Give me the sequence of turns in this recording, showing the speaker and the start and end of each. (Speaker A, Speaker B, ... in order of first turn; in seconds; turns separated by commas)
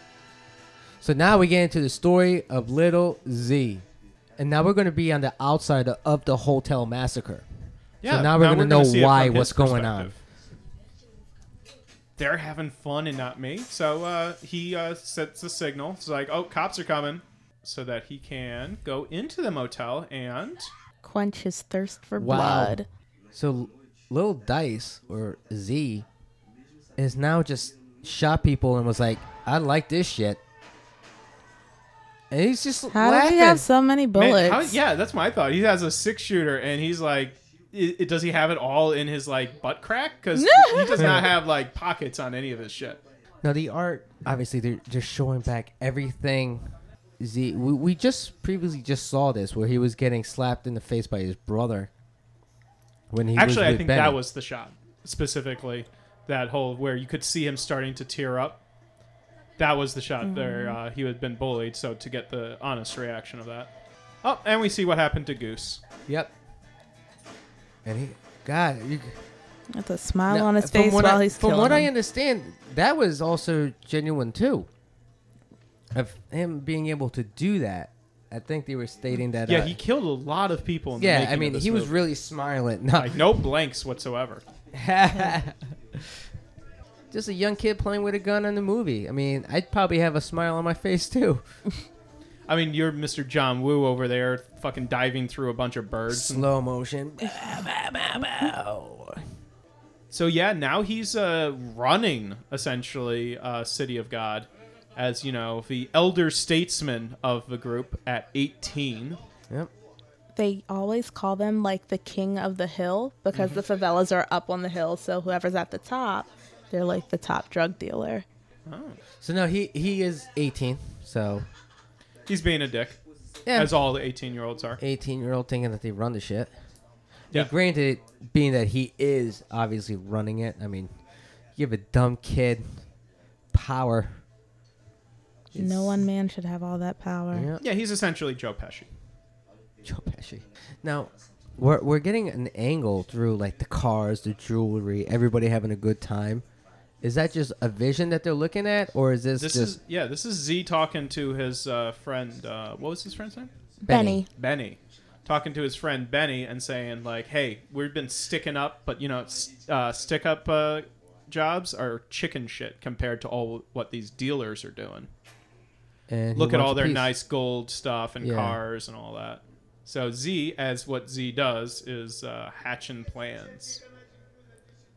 Speaker A: 1.0-3.8, Speaker A: 4.4-7.4, Speaker B: 8.0-10.1, Speaker A: 8.1-10.2, Speaker B: 12.2-20.7, Speaker C: 21.0-22.9, Speaker A: 22.2-22.8, Speaker A: 23.3-26.1, Speaker A: 27.0-30.4, Speaker A: 32.3-33.6, Speaker C: 32.9-34.8, Speaker B: 34.1-43.0, Speaker C: 40.4-41.2, Speaker A: 41.0-41.3, Speaker A: 43.4-51.9, Speaker A: 53.1-54.2, Speaker B: 53.3-58.6, Speaker B: 59.6-63.7, Speaker C: 60.2-60.8, Speaker B: 64.2-65.8, Speaker A: 66.1-66.3, Speaker A: 67.8-69.2, Speaker C: 69.7-71.9, Speaker A: 70.3-74.7, Speaker A: 75.9-79.8, Speaker B: 79.5-82.0, Speaker A: 81.0-83.3, Speaker B: 82.9-84.4, Speaker A: 84.7-86.2, Speaker A: 87.1-91.4, Speaker B: 92.5-96.5, Speaker A: 96.1-99.2, Speaker B: 100.1-109.2, Speaker C: 110.3-118.2, Speaker B: 113.3-113.6, Speaker B: 118.7-119.0, Speaker A: 119.2-121.5, Speaker B: 122.3-123.0, Speaker A: 123.5-123.8, Speaker B: 123.5-124.8, Speaker A: 124.8-126.5, Speaker A: 127.3-130.9, Speaker A: 131.6-132.8, Speaker A: 133.5-134.2, Speaker A: 135.5-136.1, Speaker C: 135.6-137.5, Speaker A: 137.3-137.6, Speaker B: 137.6-138.9, Speaker A: 139.8-146.4, Speaker A: 147.0-149.8, Speaker B: 149.4-153.5, Speaker C: 153.8-154.3, Speaker A: 153.9-154.2, Speaker B: 154.4-165.1, Speaker A: 166.1-167.1, Speaker B: 166.3-173.8, Speaker A: 168.2-168.6